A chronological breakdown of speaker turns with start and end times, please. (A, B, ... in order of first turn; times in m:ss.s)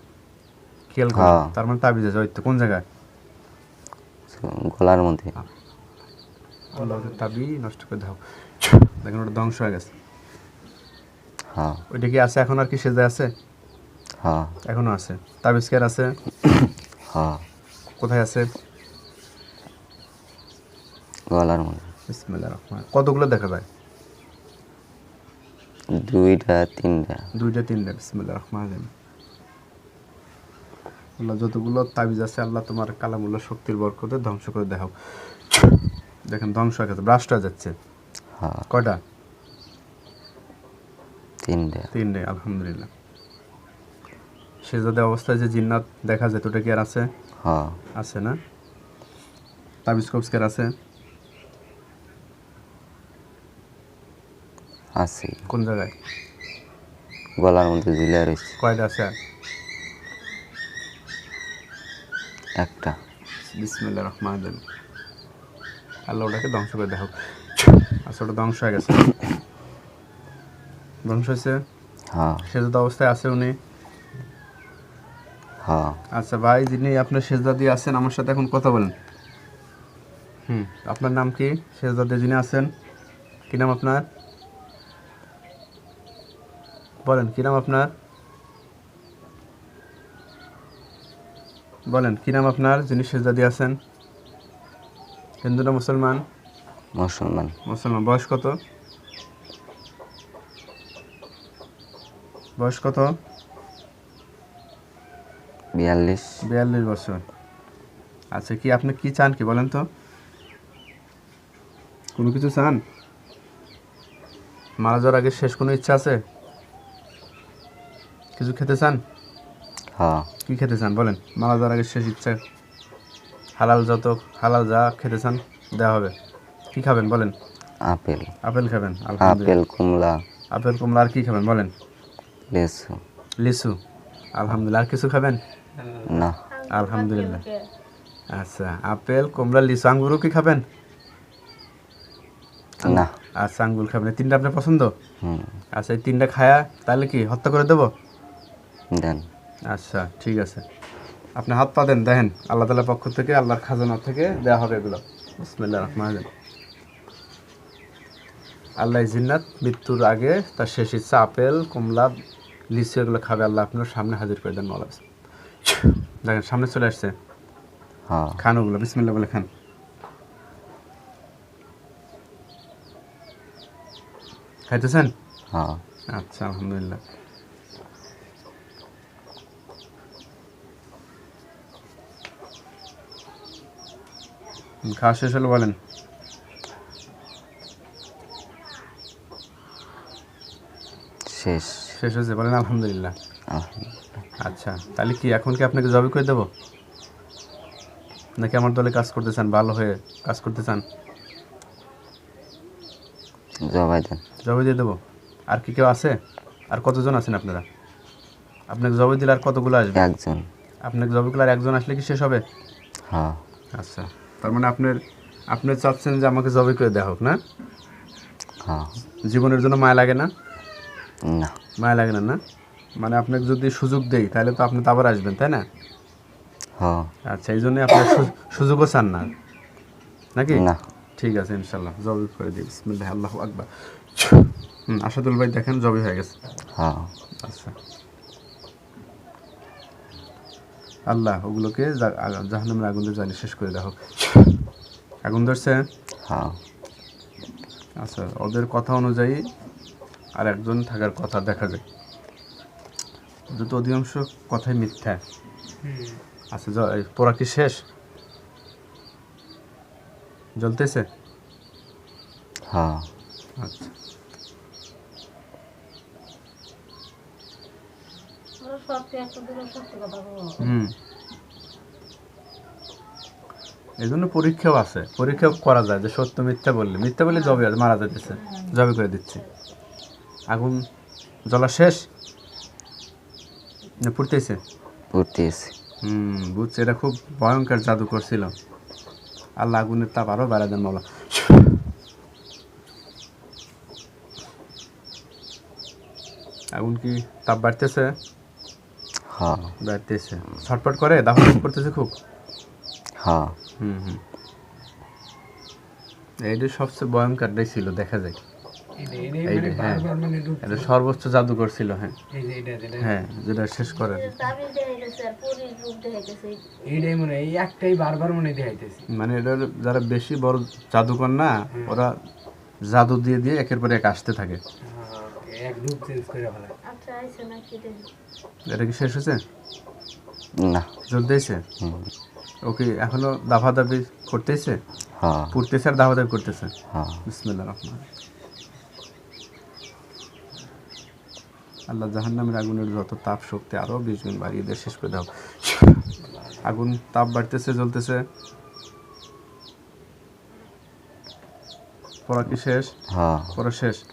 0:00.9-0:02.8 A
0:01.1-0:01.5 B
0:04.3-0:05.3 B
0:06.7-0:07.2 C
0:06.7-0:09.9 A
0:11.5-0:11.8 B
0:11.9-0:13.3 A
0:14.2-0:14.6 B
0:14.6-0:16.1 A
0:17.1-0:17.4 B
0:18.0-0:18.5 A
0:21.3-0:21.9 B
0:22.1-0:23.6 A
0:26.0-0:27.3 B
0:27.3-0:28.9 A
0:31.2-0:37.7 A
0:38.4-0:38.6 B
0:38.7-0:39.0 A
0:41.4-0:41.9 B
0:41.9-0:42.9 A
0:44.6-0:47.1 A
0:47.4-0:47.8 B
0:48.0-0:48.4 A
0:49.8-0:50.7 A
0:55.0-0:55.4 B
0:55.5-0:55.9 A
0:57.4-0:58.6 B
0:58.6-0:59.1 A
1:02.6-1:03.0 B
1:03.4-1:04.6 A
1:06.1-1:09.2 A
1:11.0-1:11.6 A
1:12.1-1:12.4 B
1:12.4-1:13.6 A
1:15.6-1:16.0 B
1:16.1-1:18.9 A
1:20.5-1:22.7 A
1:23.5-1:24.0 A
1:27.0-1:27.9 A
1:31.9-1:33.8 A
1:35.4-1:36.2 A
1:37.0-1:37.6 B
1:37.6-1:38.6 A
1:42.6-1:43.2 A
1:45.8-1:46.4 B
1:46.4-1:47.2 A
1:48.3-1:49.8 A
1:52.2-1:52.8 A
1:54.8-1:56.2 A
1:58.4-1:59.0 A
2:00.0-2:00.3 B
2:00.4-2:02.4 A
2:03.6-2:06.1 A
2:06.7-2:07.3 A
2:07.8-2:08.3 B
2:08.4-2:09.6 A
2:09.2-2:10.2 B
2:10.5-2:11.7 A
2:12.5-2:13.0 B
2:13.4-2:13.8 A
2:14.4-2:15.4 A
2:15.8-2:16.3 C
2:16.1-2:16.4 B
2:16.5-2:17.7 D
2:16.7-2:17.4 A
2:18.3-2:20.6 A
2:22.8-2:24.9 A
2:22.8-2:23.1 B
2:25.2-2:25.5 B
2:25.7-2:27.9 A
2:28.9-2:29.2 B
2:29.7-2:30.6 A
2:31.4-2:36.3 A
2:38.8-2:42.2 A
2:42.7-2:45.0 A
2:45.7-2:47.1 A
2:48.1-2:48.4 B
2:48.4-2:49.5 A
2:54.7-2:55.1 A
2:55.5-2:55.8 B
2:56.1-2:57.0 A
3:04.8-3:05.8 A
3:11.2-3:12.0 B
3:11.9-3:13.1 A
3:13.5-3:13.9 B
3:14.4-3:16.5 A
3:18.4-3:20.8 A
3:23.6-3:24.2 B
3:24.4-3:25.0 A
3:25.5-3:26.2 A
3:26.7-3:27.6 A
3:28.7-3:30.1 A
3:30.0-3:30.5 B
3:30.8-3:32.4 A
3:33.1-3:33.4 B
3:33.7-3:37.4 A
3:38.6-3:38.9 B
3:39.2-3:40.3 A
3:41.3-3:41.6 B
3:41.8-3:42.4 A
3:43.0-3:45.6 A
3:46.8-3:47.1 B
3:47.3-3:49.3 A
3:50.4-3:50.6 A
3:50.5-3:50.8 B
3:51.2-3:56.3 A
3:56.8-3:57.1 B
3:57.4-3:57.7 A
4:01.1-4:04.6 A
4:05.2-4:05.8 A
4:06.2-4:06.6 B
4:08.0-4:09.5 A
4:10.4-4:11.8 A
4:13.5-4:15.2 A
4:15.8-4:16.2 C
4:16.5-4:17.8 A
4:20.6-4:21.0 A
4:22.7-4:23.1 B
4:23.6-4:23.9 A
4:28.6-4:30.6 D
4:30.6-4:30.9 A
4:34.0-4:39.4 A
4:40.5-4:40.8 A
4:41.5-4:42.0 A
4:44.0-4:44.6 A
4:45.1-4:45.7 B
4:46.0-4:48.5 A
4:49.6-4:51.8 A
4:56.7-4:58.1 A
4:59.3-4:59.7 B
4:59.8-5:02.1 A
5:03.2-5:03.6 B
5:03.8-5:04.2 A
5:06.4-5:08.4 A
5:09.0-5:10.9 C
5:09.4-5:10.1 A
5:10.6-5:12.2 A
5:12.3-5:13.1 C
5:13.0-5:14.3 A
5:14.0-5:16.6 D
5:16.9-5:19.0 C
5:19.1-5:22.1 A
5:21.7-5:22.0 C
5:22.8-5:24.6 A
5:24.8-5:26.7 C
5:26.8-5:28.1 D
5:28.7-5:29.4 A
5:30.6-5:30.9 B
5:31.1-5:31.6 A
5:31.8-5:32.1 B
5:32.6-5:34.8 A
5:35.2-5:35.5 B
5:35.5-5:36.7 A
5:36.9-5:37.2 B
5:37.2-5:38.0 A
5:41.9-5:48.2 A
5:46.2-5:46.6 C
5:52.3-5:52.9 A
5:53.1-5:53.6 B
5:53.5-5:54.0 A